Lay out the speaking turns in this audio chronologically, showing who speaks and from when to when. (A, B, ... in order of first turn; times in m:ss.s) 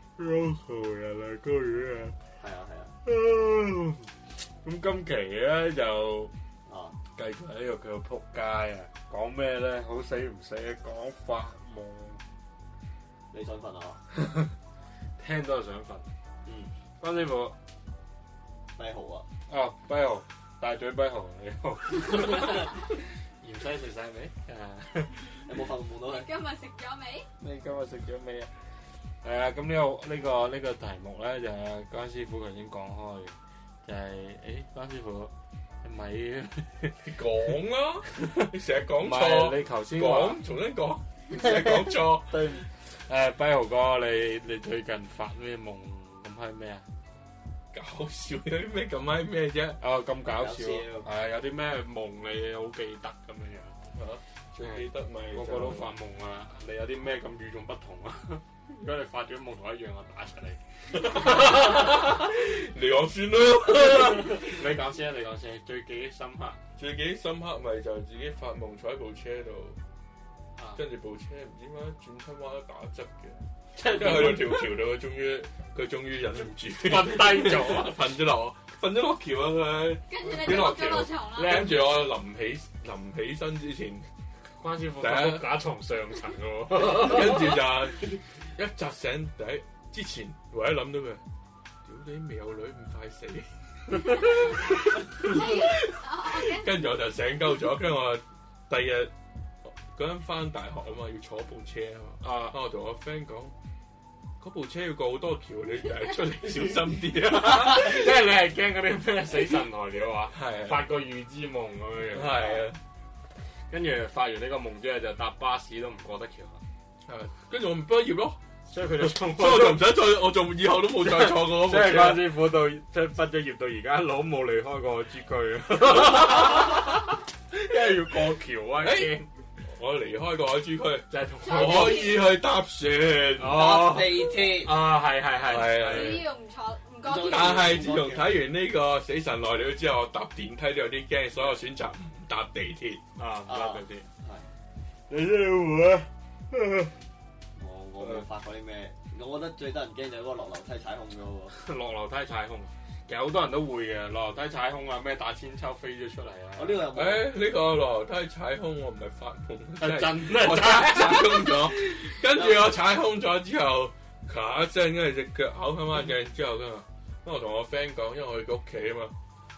0:00.2-0:02.2 A
0:02.4-0:02.9 B
0:03.0-0:04.0 A
0:04.6-0:06.3 A
0:06.7-0:06.9 B
0:07.1-0:12.2 A
0:13.3-0:14.0 B
0:14.2-0:14.5 A
0:15.2-0:16.1 A
0:17.0-0:17.5 A
0:18.8-0:19.2 B
0:19.5-0:25.3 A
0:25.5-0:26.3 B
0:26.1-0:27.3 C
0:27.4-0:28.5 A
0:29.2-0:33.3 A
0:33.8-0:35.3 A
0:35.8-0:36.9 A
0:37.0-0:42.3 D
0:39.0-0:40.4 A
0:41.5-0:46.8 A
0:47.7-0:49.8 D
0:49.8-0:53.8 A
0:50.3-0:51.1 B
0:53.9-0:55.9 D
0:54.6-1:02.1 A
1:00.9-1:04.5 D
1:04.1-1:06.6 A
1:06.8-1:09.8 D
1:10.7-1:24.0 D
1:13.8-1:14.8 A
1:16.8-1:18.0 A
1:20.1-1:21.7 C
1:24.6-1:27.6 A
1:25.0-1:25.5 D
1:26.7-1:31.2 D
1:31.8-1:39.1 D
1:35.2-1:36.7 C
1:39.6-1:43.5 D
1:42.2-1:42.5 A
1:44.4-1:48.1 D
1:47.5-1:52.7 A
1:50.3-1:50.9 D
1:52.1-1:52.8 D
1:53.7-1:56.6 A
1:57.0-1:58.4 D
1:58.7-2:00.0 A
1:59.0-2:02.3 D
2:01.0-2:09.3 A
2:08.8-2:09.1 D
2:09.7-2:13.6 D
2:11.1-2:12.2 A
2:11.4-2:12.2 C
2:13.4-2:16.2 A
2:13.4-2:14.7 B
2:15.4-2:16.3 D
2:15.8-2:17.9 C
2:17.0-2:18.4 B
2:17.2-2:23.0 D
2:23.2-2:24.0 A
2:23.5-2:24.4 B
2:25.1-2:26.9 A
2:27.6-2:31.5 B
2:31.5-2:36.8 A
2:36.6-2:37.3 B
2:36.9-2:49.1 D
2:39.8-2:41.7 A
2:42.3-2:42.7 B